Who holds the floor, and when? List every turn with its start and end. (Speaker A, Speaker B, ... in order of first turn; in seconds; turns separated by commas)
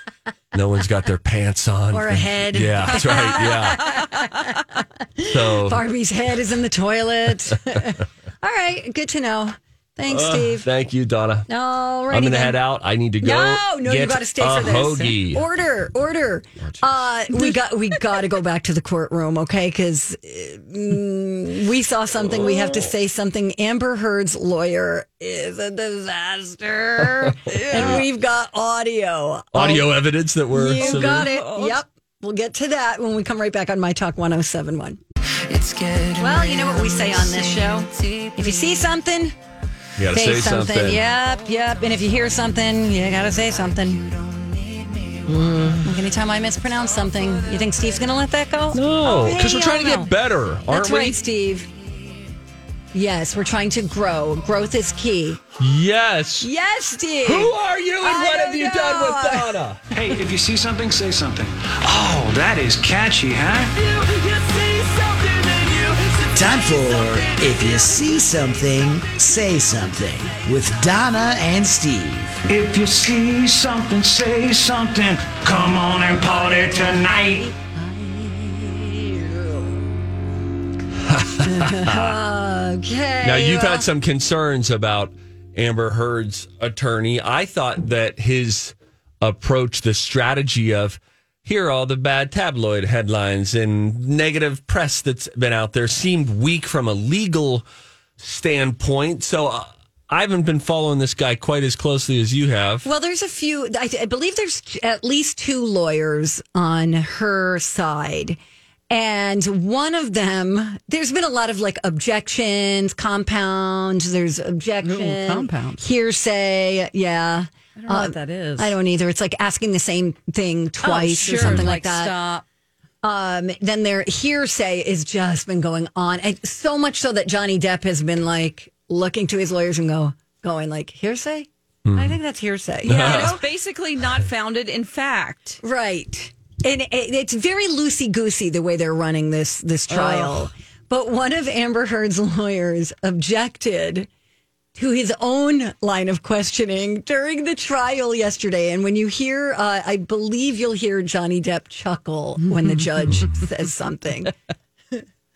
Speaker A: 0.5-4.1, Speaker B: 1.9-10.7, Speaker A: 5.2-5.8, Speaker A: 10.1-11.5, Speaker B: 11.5-12.6, Speaker A: 12.1-15.4, Speaker B: 13.2-35.0, Speaker A: 22.2-22.9, Speaker A: 27.5-28.0, Speaker C: 27.7-28.0, Speaker A: 29.5-31.3, Speaker C: 30.8-31.8, Speaker D: 35.5-37.0, Speaker B: 36.1-39.3, Speaker A: 40.0-41.0, Speaker B: 40.1-44.2, Speaker A: 45.3-45.7, Speaker B: 45.8-50.1, Speaker A: 48.7-51.2, Speaker B: 50.6-51.7, Speaker B: 52.9-55.4, Speaker A: 55.6-56.5, Speaker B: 56.4-59.6, Speaker A: 57.2-59.8, Speaker D: 59.9-67.8, Speaker E: 66.3-72.4, Speaker D: 72.5-77.5, Speaker B: 76.5-79.8, Speaker A: 81.0-82.1, Speaker B: 81.4-83.9, Speaker A: 83.2-97.6, Speaker A: 98.2-102.9, Speaker B: 102.8-108.4, Speaker B: 108.9-122.2, Speaker C: 114.8-115.8, Speaker C: 117.8-118.7, Speaker C: 120.8-122.4, Speaker A: 121.3-121.8, Speaker B: 123.0-133.4, Speaker A: 131.8-132.2, Speaker A: 132.8-133.4, Speaker C: 132.9-135.6, Speaker B: 135.6-144.1, Speaker C: 139.9-140.5, Speaker B: 144.7-154.3, Speaker C: 152.4-153.1